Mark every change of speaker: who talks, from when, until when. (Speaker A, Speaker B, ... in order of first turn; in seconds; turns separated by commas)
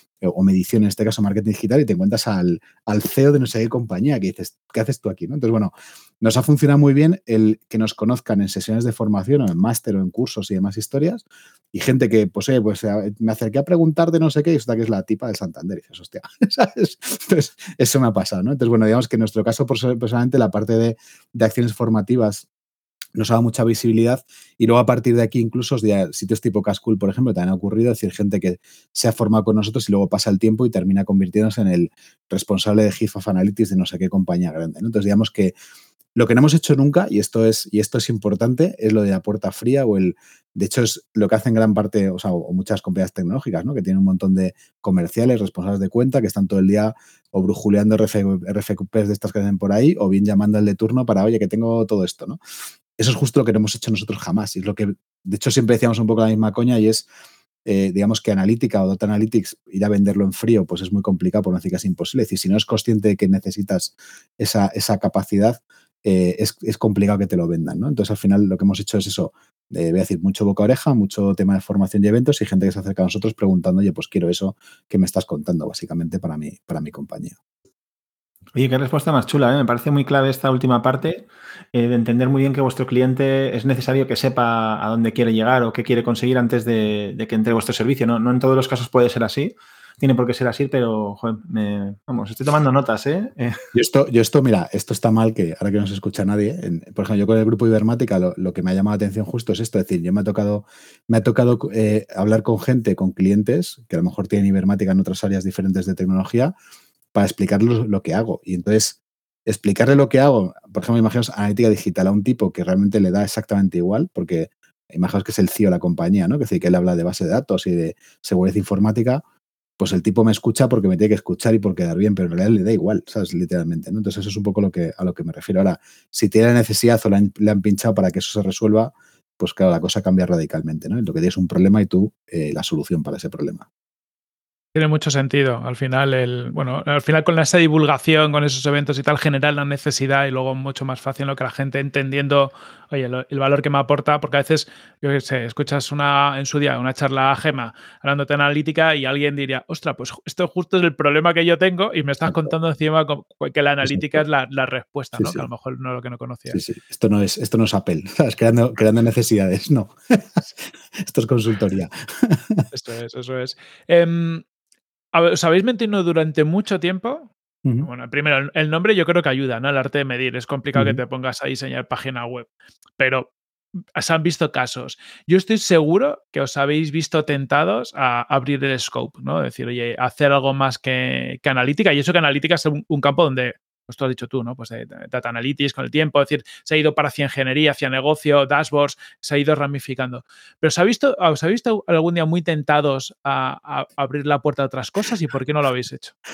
Speaker A: 0.2-22.5, Speaker A: 23.1-35.5, Speaker A: 36.1-52.4, Speaker A: 53.0-57.0, Speaker A: 57.6-77.4, Speaker B: 78.5-93.6, Speaker A: 93.7-106.5, Speaker A: 107.1-119.2, Speaker A: 119.8-133.7, Speaker C: 134.7-156.6, Speaker A: 152.2-152.5, Speaker A: 153.8-154.2, Speaker A: 155.2-155.5, Speaker A: 156.5-162.6, Speaker C: 162.7-164.4, Speaker C: 165.1-172.5, Speaker A: 167.6-167.9, Speaker A: 170.7-171.0, Speaker C: 173.0-173.3, Speaker C: 173.9-196.1